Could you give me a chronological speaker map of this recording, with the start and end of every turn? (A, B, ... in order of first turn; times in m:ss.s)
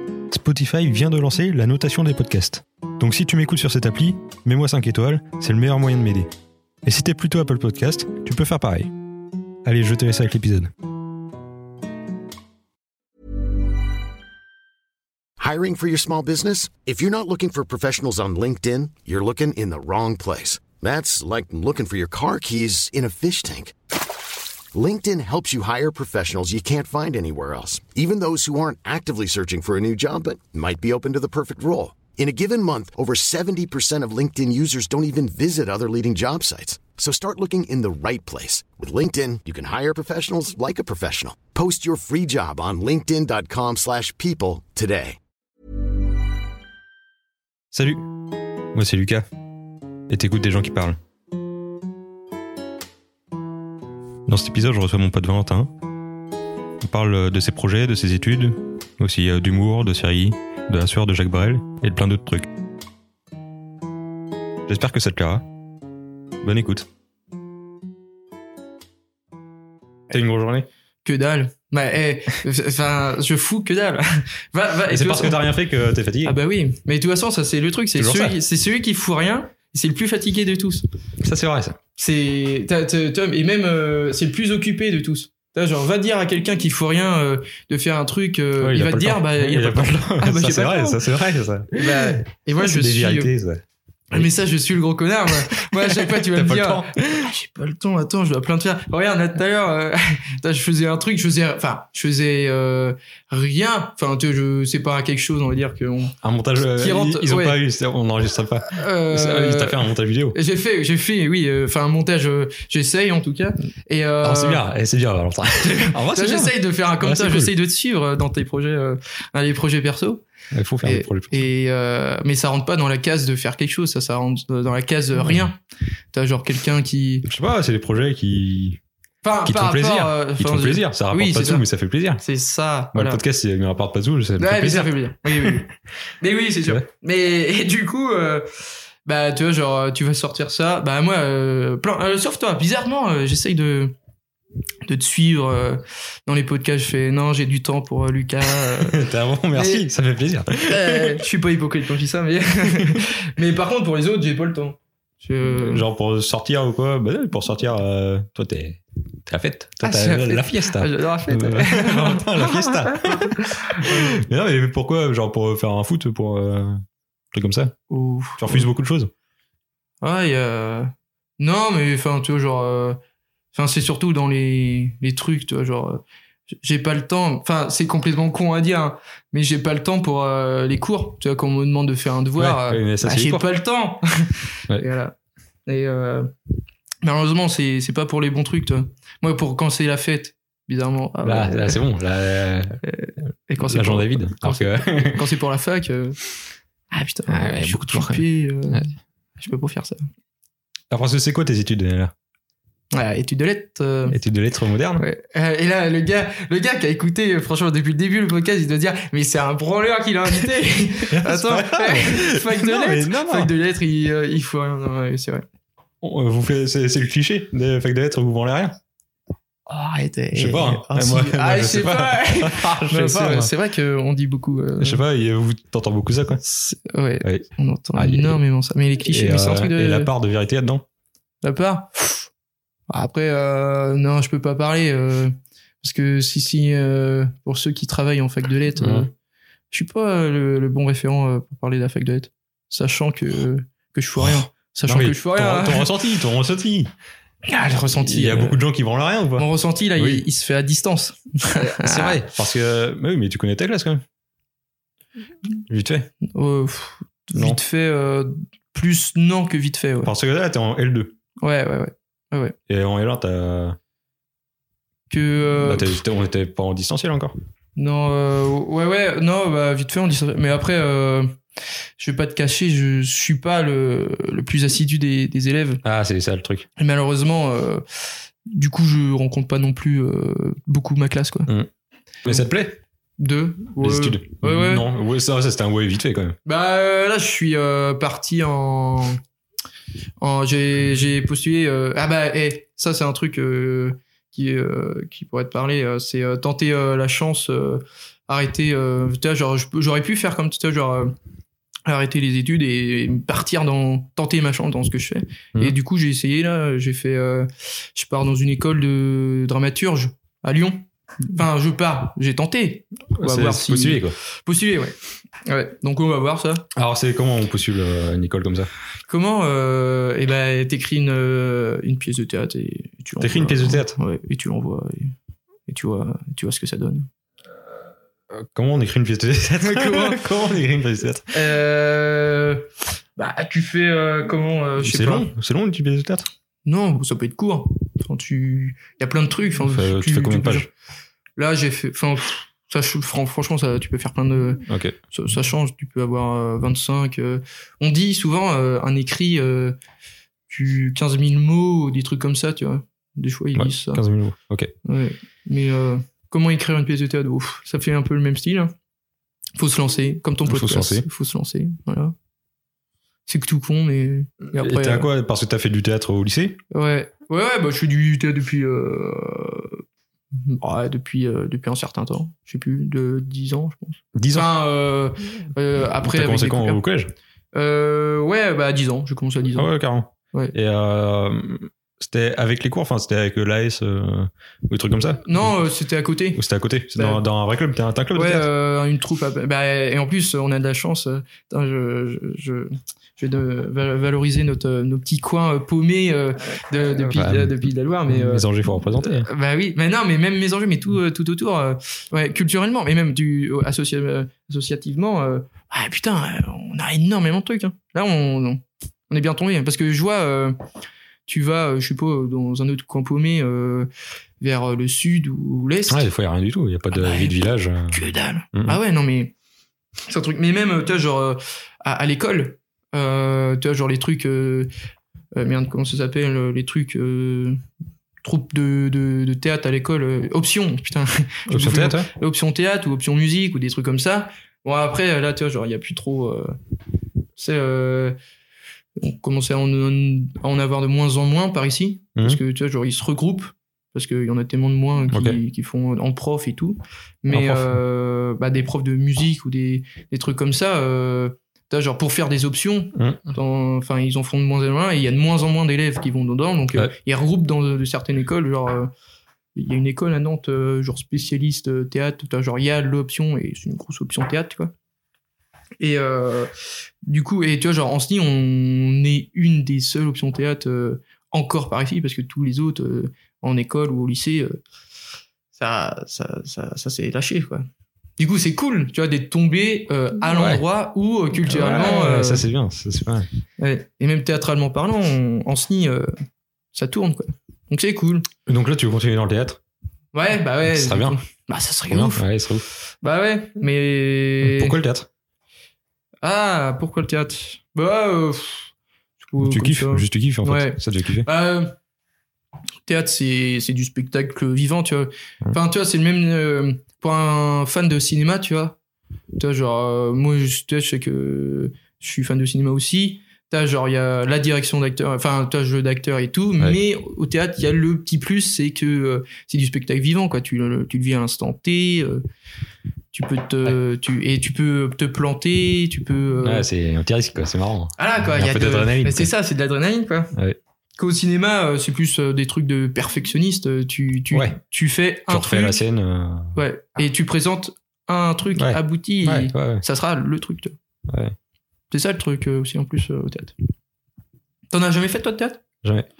0:00.3-0:06.3 A
0:06.8-0:08.9 A
0:09.6-0:10.7 A
0:15.4-0:23.7 B
0:24.7-0:45.2 B
0:47.7-0:48.0 A
0:48.7-0:49.3 A
0:50.1-0:51.0 A
0:54.3-0:55.7 A
0:56.8-1:02.5 A
1:04.7-1:05.4 A
1:06.4-1:06.9 A
1:10.1-1:10.7 A
1:11.0-1:15.4 C
1:14.9-1:16.4 A
1:16.2-1:20.8 C
1:18.0-1:18.4 A
1:21.2-1:21.8 A
1:22.0-1:31.0 C
1:28.6-1:34.3 A
1:31.7-1:33.3 C
1:34.1-1:47.6 C
1:35.5-1:36.9 A
1:46.2-1:50.4 A
1:48.7-1:54.6 C
1:54.2-1:57.5 A
1:55.9-2:00.2 C
2:00.5-2:01.5 A
2:00.8-2:05.6 C
2:06.1-2:07.2 C
2:07.2-2:08.8 A
2:09.2-2:11.6 C
2:09.4-2:12.2 A
2:12.2-2:13.2 C
2:12.9-2:15.5 A
2:14.4-2:15.7 C
2:16.2-2:18.5 C
2:19.0-2:23.9 C
2:24.8-2:29.0 C
2:28.8-2:31.2 A
2:29.5-2:29.8 C
2:30.7-2:35.8 C
2:35.4-2:46.8 A
2:39.8-2:44.2 C
2:47.3-2:47.7 A
2:47.9-2:48.7 C
2:48.4-2:49.1 A
2:50.0-2:53.0 C
2:53.5-2:56.0 C
2:56.6-3:05.1 C
3:02.4-3:03.4 A
3:05.7-3:06.3 C
3:07.0-3:11.8 C
3:11.2-3:12.8 A
3:12.8-3:16.2 C
3:13.6-3:15.2 A
3:16.9-3:18.8 C
3:17.3-3:18.9 A
3:19.4-3:20.1 C
3:20.9-3:22.1 A
3:22.9-3:24.2 C
3:24.1-3:25.0 A
3:25.0-3:35.4 C
3:31.1-3:33.5 A
3:36.0-3:38.8 A
3:39.7-3:45.0 C
3:40.3-3:43.5 A
3:44.8-3:46.4 A
3:46.5-3:50.1 C
3:47.2-3:48.4 A
3:49.0-3:50.8 A
3:51.4-3:52.3 C
3:52.9-3:59.1 C
3:58.8-3:59.1 A
3:59.7-4:05.9 C
4:04.2-4:06.9 A
4:07.4-4:08.6 C
4:08.0-4:10.2 A
4:09.4-4:12.2 C
4:11.5-4:14.0 A
4:15.7-4:16.1 A
4:16.3-4:20.1 C
4:20.0-4:21.2 A
4:21.4-4:22.6 C
4:22.7-4:23.8 A
4:25.1-4:26.0 C
4:25.6-4:27.4 A
4:27.8-4:31.3 C
4:32.0-4:35.8 C
4:35.8-4:36.7 A
4:36.8-4:37.8 C
4:38.4-4:41.5 C
4:42.2-4:42.8 A
4:43.2-4:44.8 C
4:43.8-4:46.4 A
4:46.4-4:49.2 C
4:50.2-5:01.1 C
5:01.8-5:16.6 C
5:13.2-5:14.2 A
5:16.7-5:18.7 A
5:19.1-5:25.1 C
5:23.2-5:24.0 A
5:25.7-5:27.1 C
5:28.3-5:31.3 A
5:29.6-5:30.2 C
5:31.3-5:35.3 C
5:34.8-5:36.3 A
5:36.6-5:40.7 C
5:39.6-5:40.7 A
5:41.4-5:49.8 C
5:44.7-5:45.0 A
5:50.5-5:54.0 C
5:53.5-5:54.7 A
5:54.8-5:58.7 C
5:59.6-6:02.1 C
6:00.4-6:01.1 A
6:03.3-6:05.1 C
6:04.4-6:06.6 A
6:06.7-6:09.8 C
6:10.4-6:16.8 C
6:14.1-6:14.5 A
6:16.0-6:17.1 A
6:17.5-6:19.7 C
6:19.5-6:25.5 A
6:25.2-6:26.4 C
6:26.3-6:28.4 A
6:26.9-6:27.2 C
6:28.1-6:50.6 C
6:36.8-6:39.3 A
6:51.3-6:53.9 C
6:54.4-6:56.0 C
6:55.9-6:58.0 A
6:56.9-6:57.4 C
6:57.9-6:59.3 C
7:00.1-7:04.7 C
7:05.3-7:07.6 C
7:08.2-7:16.5 C
7:11.5-7:12.1 A
7:17.4-7:18.1 C
7:19.0-7:38.9 C
7:25.1-7:25.4 A
7:27.3-7:27.8 A
7:33.0-7:33.2 A
7:39.6-7:44.7 C
7:45.8-7:46.5 C
7:47.0-7:54.6 C
7:55.5-7:57.6 C
7:58.2-8:02.4 C
8:00.3-8:00.6 A
8:01.4-8:03.3 A
8:03.6-8:06.1 C
8:06.7-8:08.3 C
8:08.5-8:09.6 A
8:10.1-8:12.2 C
8:10.7-8:11.2 A
8:11.9-8:12.6 A
8:13.0-8:14.8 C
8:14.4-8:15.1 A
8:16.2-8:18.7 C
8:19.2-8:21.7 C
8:19.4-8:21.3 A
8:22.8-8:28.8 C
8:29.4-8:42.2 C
8:43.1-8:46.6 C
8:46.4-8:49.3 A
8:48.0-8:50.3 C
8:51.0-8:55.8 C
8:55.3-8:56.5 A
8:56.6-9:00.7 C
8:58.6-8:59.8 A
9:01.1-9:01.4 A
9:01.9-9:03.5 C
9:04.7-9:05.6 C